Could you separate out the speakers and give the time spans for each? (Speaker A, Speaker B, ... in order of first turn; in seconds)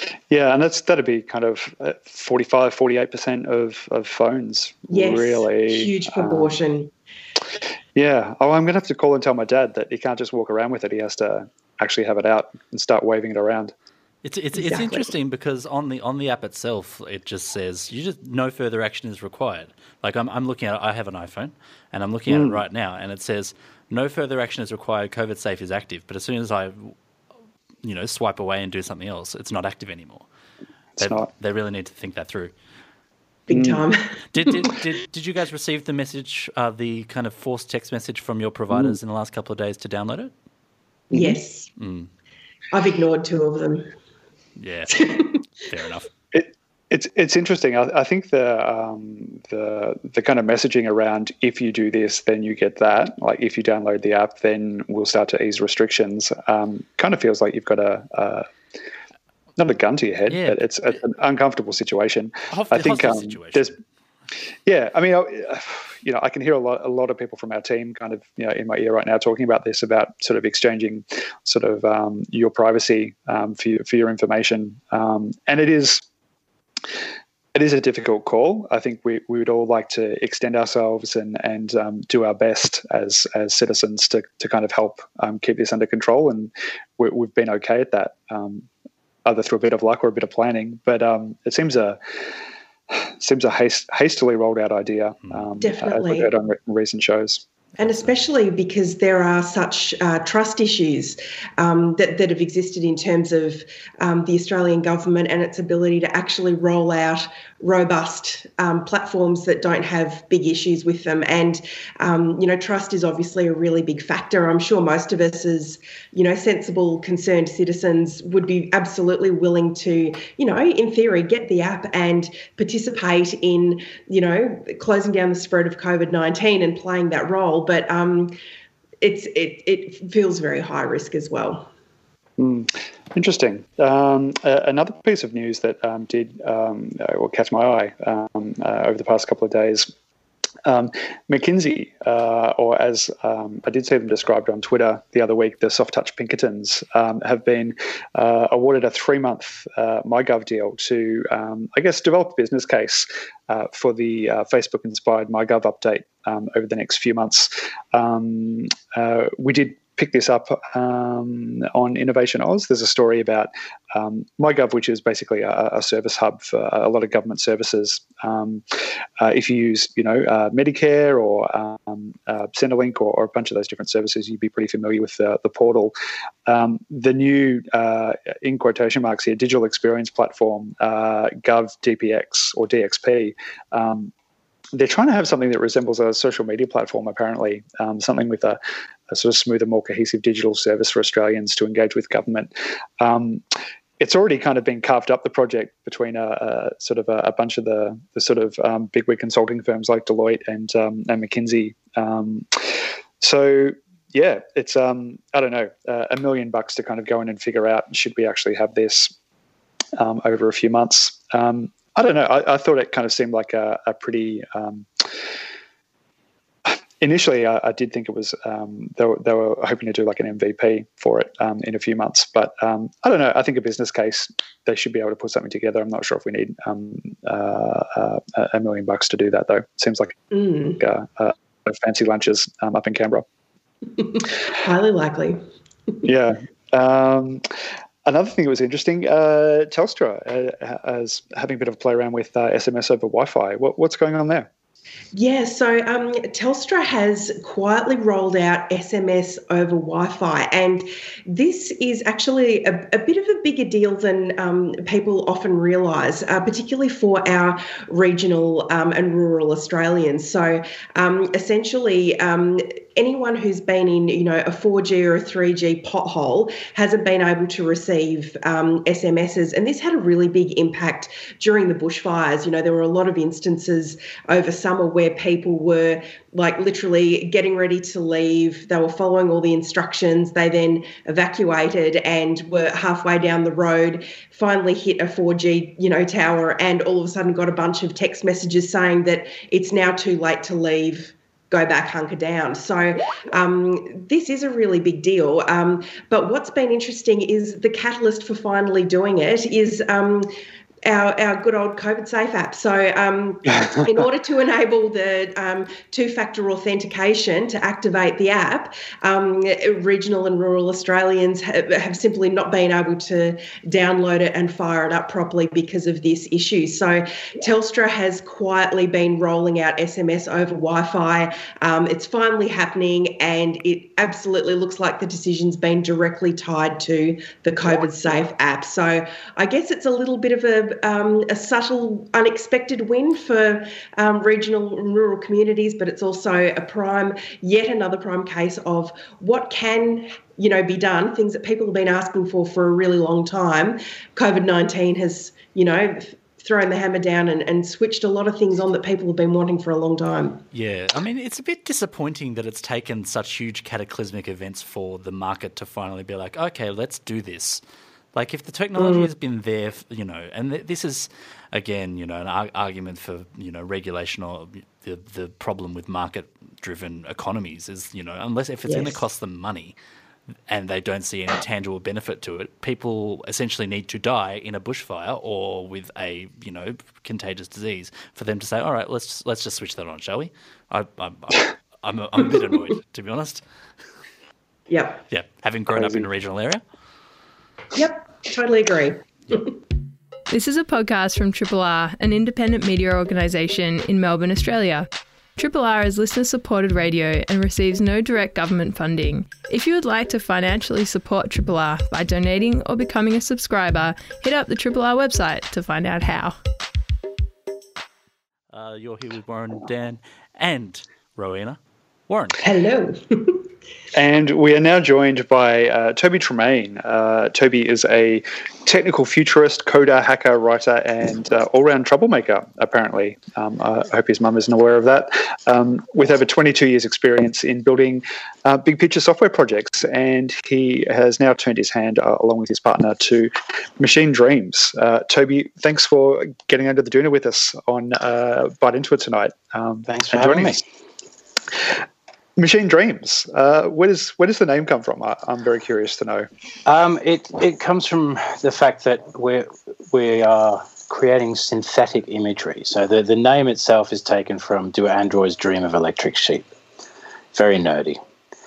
Speaker A: 0.3-6.6, 8.0-13.7, 22.3-22.6, 31.0-31.3, 33.5-33.9, 38.7-39.0, 41.1-41.4, 46.3-58.5, 59.6-63.7, 64.7-76.0, 77.5-88.7, 89.2-92.0, 92.9-97.4, 132.4-139.9, 140.7-168.7, 169.2-175.9, 176.5-184.1, 184.8-188.6, 189.1-193.4, 194.0-209.1, 210.0-214.9, 216.7-230.2, 230.8-233.2, 236.1-237.4, 238.1-244.5, 385.7-386.0, 413.9-440.6, 442.4-446.3
Speaker B: 4.9-6.9, 14.6-15.1, 33.5-34.0, 41.1-41.7, 42.7-43.9, 95.6-96.3, 97.8-128.3, 129.0-131.7, 230.3-230.8, 234.0-235.4, 245.1-300.3, 300.9-350.4, 358.8-359.1, 368.7-369.0, 384.7-385.0, 387.8-389.5, 412.4-413.4
Speaker C: 14.2-26.9, 27.8-30.3, 31.0-32.5, 34.3-40.3, 41.8-42.1, 44.6-46.1, 60.3-60.6, 62.5-63.8, 350.5-357.6, 358.1-369.8, 370.5-383.4, 385.1-386.6, 408.5-412.4
Speaker D: 390.3-406.4
Speaker E: 439.9-440.6, 446.7-456.5, 457.3-458.0